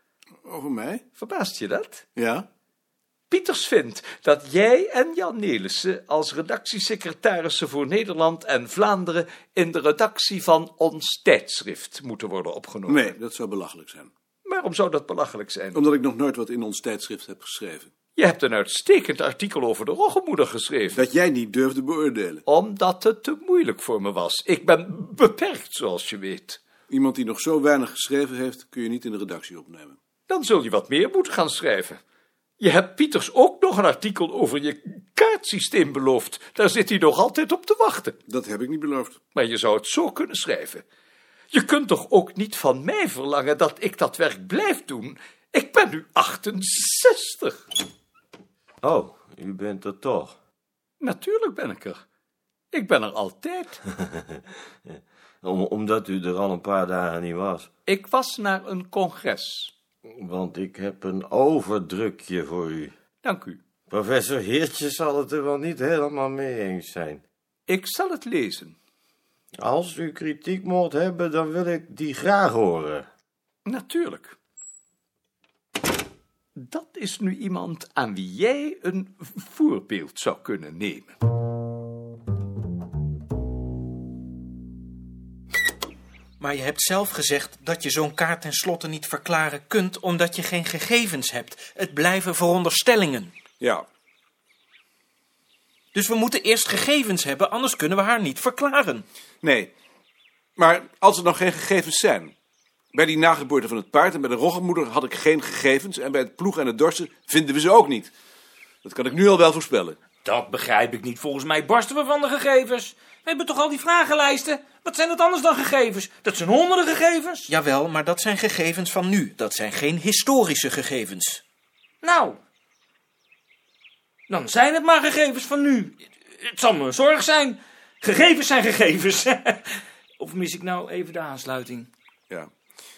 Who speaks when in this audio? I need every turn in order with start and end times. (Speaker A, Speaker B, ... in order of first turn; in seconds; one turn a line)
Speaker A: 0.5-1.0
Speaker B: 1.2-2.0
Speaker A: 2.2-2.5
Speaker B: 3.3-13.2
Speaker A: 12.9-14.1
Speaker B: 14.4-15.8
Speaker A: 15.8-17.9
Speaker B: 18.2-21.0
Speaker A: 20.9-22.4
Speaker B: 22.5-26.6
Speaker A: 26.9-30.0
Speaker B: 30.3-32.0
Speaker B: 32.6-38.2
Speaker A: 38.3-39.2
Speaker B: 39.3-40.8
Speaker B: 41.5-47.6
Speaker C: 48.8-50.4
Speaker B: 51.0-52.0
Speaker B: 52.7-53.8
Speaker C: 54.1-54.4
Speaker C: 55.4-57.7
Speaker B: 57.9-59.7
Speaker C: 60.1-62.9
Speaker B: 63.2-63.6
Speaker C: 63.9-67.2
Speaker B: 67.7-68.8
Speaker C: 69.6-73.1
Speaker B: 73.7-74.4
Speaker B: 76.6-81.1
Speaker D: 86.4-93.3
Speaker A: 93.6-93.9
Speaker D: 95.9-99.1
Speaker A: 99.4-99.7
Speaker A: 100.6-102.3
Speaker A: 102.9-108.1
Speaker A: 108.8-110.0
Speaker E: 110.2-117.5
Speaker D: 117.5-121.4
Speaker E: 122.0-122.4
Speaker E: 124.3-129.6
Speaker E: 130.2-131.9